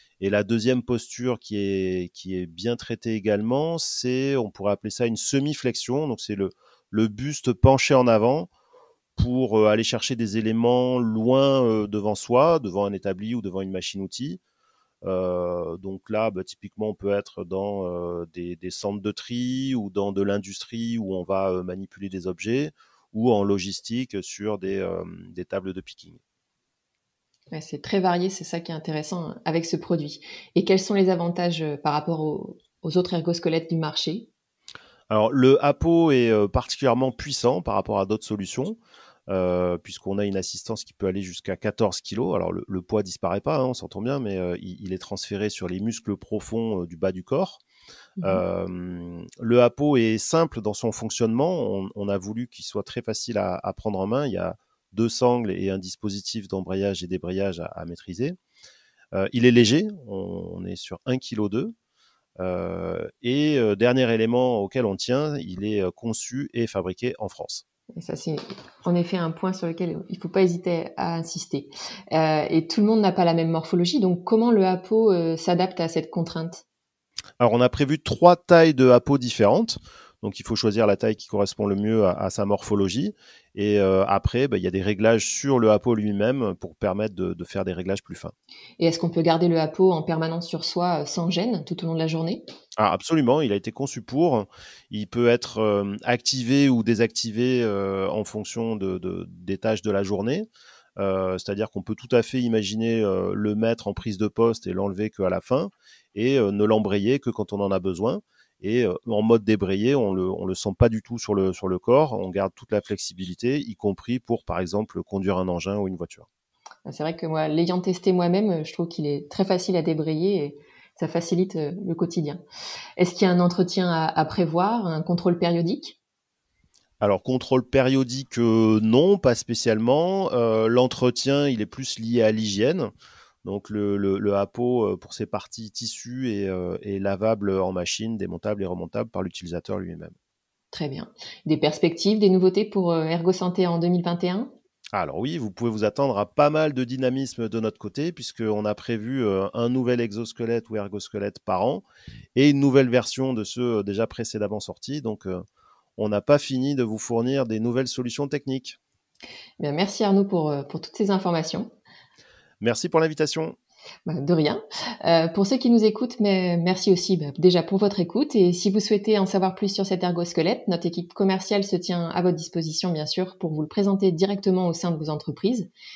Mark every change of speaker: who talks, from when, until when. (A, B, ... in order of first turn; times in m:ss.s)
0:00.2-0:08.5 A
0:09.2-0:14.4 A
0:15.0-0:26.2 A
0:27.5-0:34.3 B
0:35.1-0:47.6 A
0:48.2-0:48.4 B
0:48.2-0:58.4 A
0:59.1-1:01.7 A
1:02.4-1:07.6 A
1:08.0-1:16.6 B
1:17.4-1:28.3 A
1:28.8-1:32.4 B
1:32.8-1:40.5 A
1:41.0-1:56.3 A
1:56.9-2:02.4 B
2:03.0-2:06.0 B
2:07.0-2:12.9 A
2:13.4-2:20.2 A
2:20.7-2:24.5 B
2:24.9-2:35.4 A
2:36.0-2:38.8 A
2:39.6-2:41.7 B
2:42.6-2:43.6 A
2:44.1-2:55.7 B